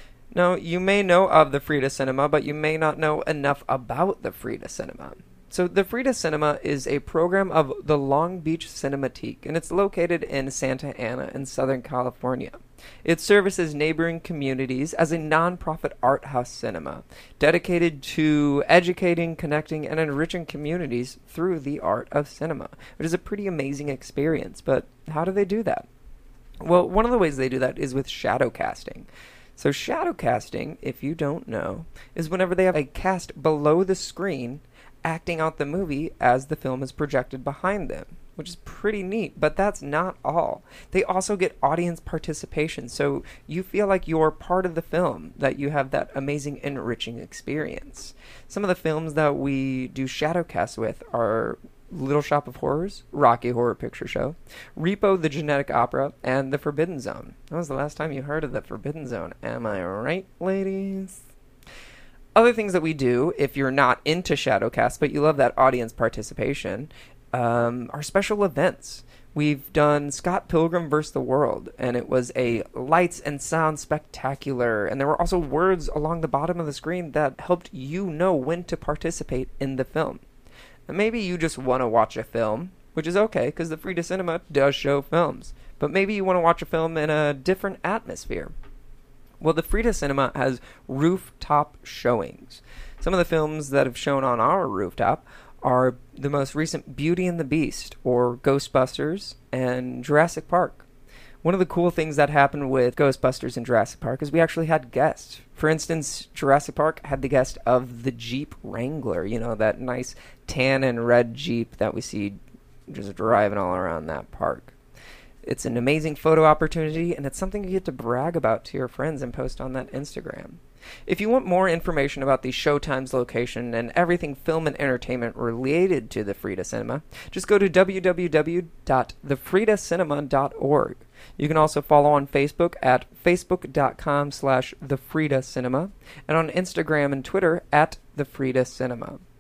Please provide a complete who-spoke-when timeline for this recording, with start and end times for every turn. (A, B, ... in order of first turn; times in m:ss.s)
0:00.3-0:25.9 A
0:26.6-1:01.2 A
1:02.4-1:20.2 A
1:20.9-1:28.5 A
1:29.4-1:40.8 A
1:41.4-1:54.7 A
1:55.4-2:19.2 A